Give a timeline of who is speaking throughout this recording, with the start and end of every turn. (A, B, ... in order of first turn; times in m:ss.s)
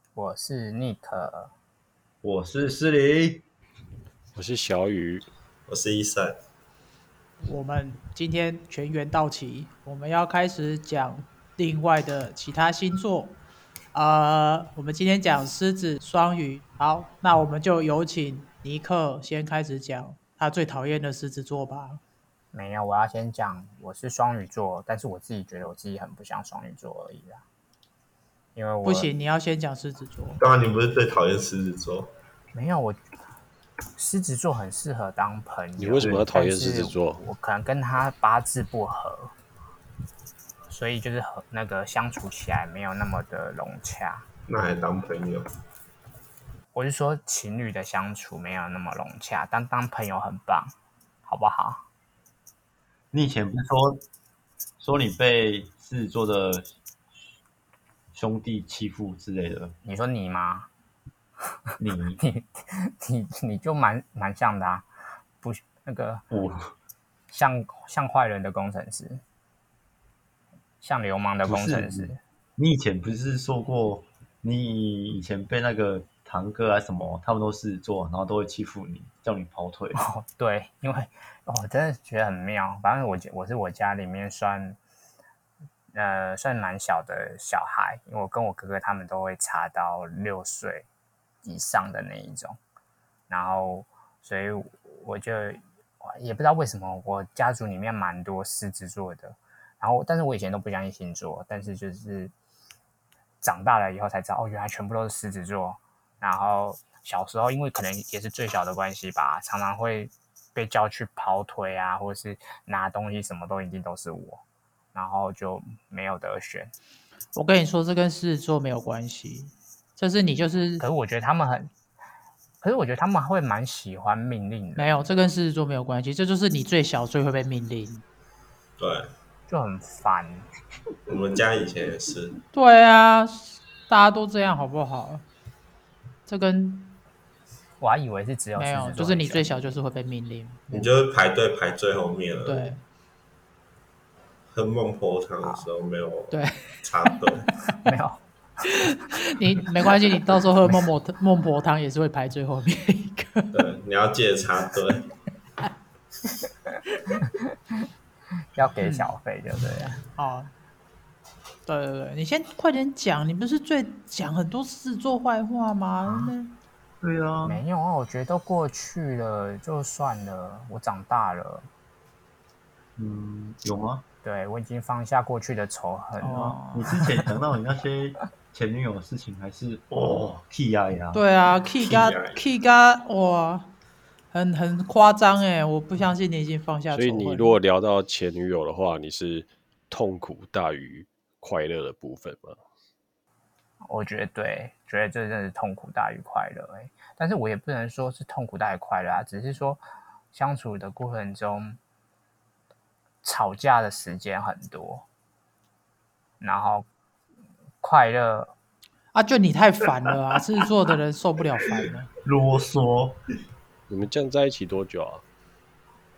0:00.1-0:01.5 A
0:02.2-0:03.4 B
0:04.3-0:05.2 C
0:05.7-0:06.4 D
0:07.4-0:13.4 E
0:13.9-0:22.0 E
0:22.5-0:27.4 A
0:28.5-0:29.1 A
0:28.8-0:30.4 E
0:30.4-0:32.1 D
0:32.5-0:33.0 A
0:34.0-0:39.3 A
0:35.8-0:37.2 C
0:40.7-0:44.3 A
0:44.5-0:45.5 D
0:46.7-0:50.7 A
0:51.2-0:51.8 A
0:53.1-0:54.0 B
0:54.8-0:56.7 B
0:58.1-0:59.7 B
0:59.8-1:00.7 A
1:01.8-1:02.2 B
1:02.2-1:04.9 A
1:05.4-1:06.2 A
1:06.3-1:06.7 B
1:07.3-1:09.2 A
1:10.8-1:12.2 A
1:11.4-1:20.0 B
1:20.0-1:24.8 A
1:25.9-1:30.9 A
1:31.4-1:32.6 A
1:33.3-1:42.3 A
1:43.4-1:54.4 A
1:54.9-1:56.7 A
1:57.3-2:00.8 E
2:00.8-2:01.7 A
2:02.6-2:05.3 A
2:04.8-2:08.0 E
2:08.8-2:09.1 D
2:09.5-2:10.5 A
2:11.1-2:12.4 D
2:12.5-2:15.2 E
2:16.3-2:17.0 E
2:17.8-2:19.6 A
2:18.6-2:20.9 E
2:20.7-2:22.7 D
2:22.4-2:22.8 E
2:24.5-2:27.5 D
2:26.3-2:26.8 E
2:27.8-2:29.1 A
2:28.6-2:33.5 E
2:33.5-2:35.1 D
2:38.5-2:40.0 A
2:38.8-2:39.1 E
2:40.2-2:40.5 E
2:41.6-2:46.5 E
2:47.0-2:47.6 B
2:47.4-2:51.7 A
2:53.0-2:54.0 B
2:54.2-2:56.6 A
2:56.2-2:56.9 E
2:56.7-3:01.2 B
2:59.9-3:00.3 D
3:01.1-3:03.7 E
3:01.8-3:02.4 D
3:04.3-3:07.6 E
3:06.9-3:12.6 C
3:13.8-3:19.8 A
3:20.3-3:21.8 A
3:23.2-3:25.0 A
3:26.4-3:26.8 A
3:27.8-3:28.5 A
3:29.1-3:32.1 E
3:32.2-3:33.2 B
3:33.9-3:35.2 C